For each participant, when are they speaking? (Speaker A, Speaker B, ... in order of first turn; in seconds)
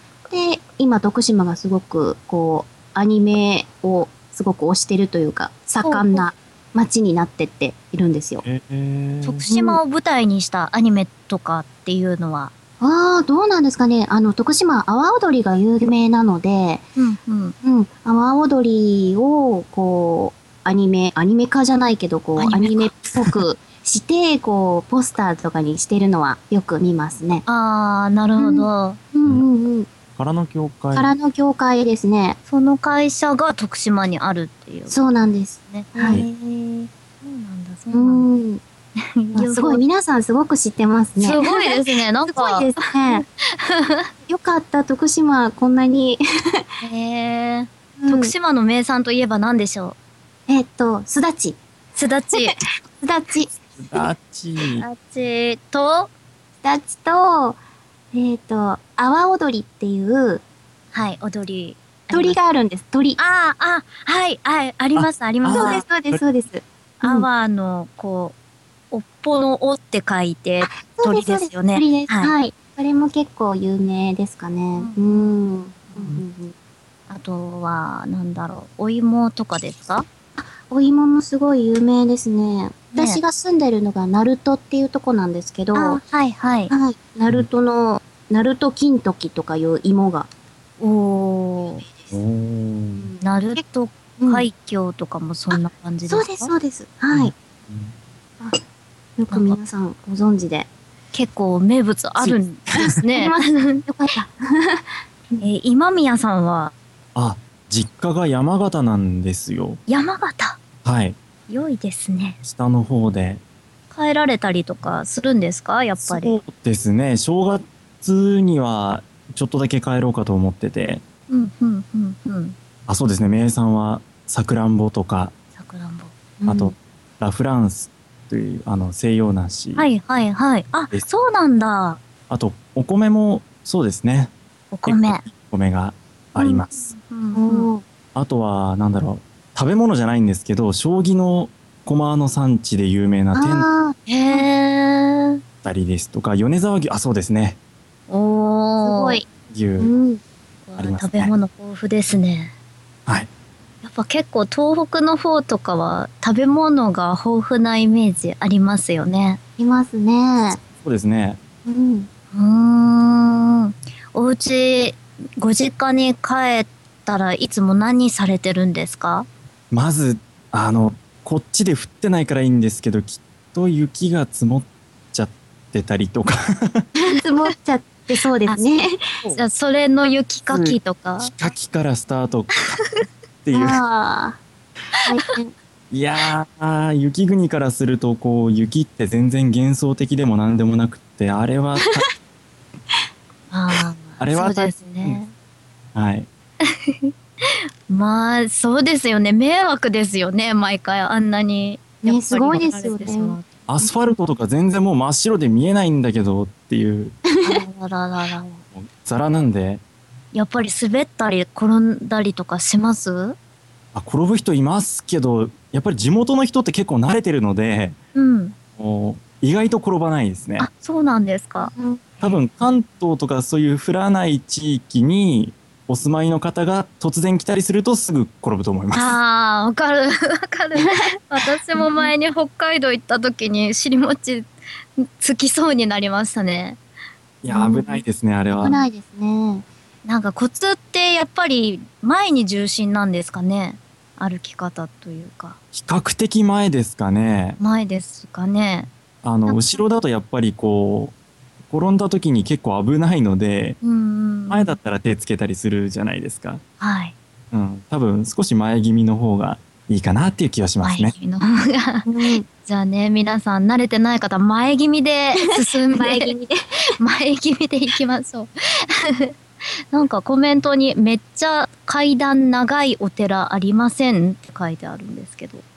Speaker A: 0.3-8.4, 9.5-9.8, 12.8-16.8, 17.6-27.4, 28.4-29.9, 30.9-32.4, 34.9-36.2, 37.9-38.6, 39.3-43.2, 44.3-46.6, 48.0-48.3, 50.5-51.6, 53.0-53.5, 56.6-57.6, 58.1-60.4, 62.1-63.2, 65.5-67.3, 70.6-76.5, 80.4-86.0, 86.7-90.3, 92.9-93.6, 94.2-94.5, 95.5-97.3, 99.2-100.7, 102.7-105.4, 126.4-126.7, 137.3-137.8, 143.3-144.5, 148.8-149.2, 149.8-150.2, 159.6-160.6, 161.7-162.1, 176.9-178.9, 183.5-184.4, 185.0-185.5, 202.0-203.9, 207.3-207.6, 221.6-222.1, 231.7-232.1, 237.5-238.0, 238.5-239.7, 262.0-262.4, 265.4-266.6
Speaker B: 5.8-6.3, 9.2-12.5, 17.0-17.6, 22.4-22.9, 27.5-29.0, 32.5-35.0, 35.6-38.3, 39.0-39.8, 41.2-44.1, 46.8-50.0, 52.0-52.5, 54.8-56.1, 60.9-62.4, 63.2-65.8, 67.0-68.3, 68.9-72.3, 74.8-76.0, 77.1-80.0, 83.0-83.2, 85.7-86.7, 90.8-91.9, 93.2-96.5, 99.3-99.6, 101.1-103.8, 105.4-106.7, 109.9-110.6, 111.5-112.4, 113.9-116.4, 121.3-122.5, 125.6-126.1, 129.8-132.0, 134.7-135.2, 136.9-137.7, 144.1-145.4, 148.1-149.2, 150.7-152.5, 153.8-159.4, 162.3-169.3, 179.3-181.3, 193.5-195.3, 196.7-197.1, 197.9-203.5, 207.4-208.6, 210.3-213.3, 218.1-218.5, 220.6-221.7, 228.9-236.8, 240.0-245.6, 247.6-248.9, 249.5-249.8, 253.8-254.8, 256.8-257.1, 260.8-266.3, 267.0-269.3, 269.9-275.6
Speaker C: 8.4-9.4, 30.1-31.1, 53.8-54.8, 65.0-66.2, 92.1-93.1, 97.1-97.9, 102.2-102.9, 107.1-109.8, 110.8-111.2, 112.4-113.4, 116.0-121.0, 122.9-125.3, 126.5-129.9, 132.3-134.3, 134.8-136.9, 138.1-143.7, 145.6-147.6, 149.5-149.9, 150.8-151.3, 160.8-161.4, 169.7-176.8, 180.5-182.7, 183.4-183.8, 185.9-192.1, 194.2-195.2, 195.9-196.3, 203.7-207.1, 208.7-209.8, 213.9-218.0, 218.8-220.7, 222.2-229.2, 237.4-238.8, 245.7-247.6, 249.2-251.1, 251.7-253.8, 254.5-256.6, 257.5-261.1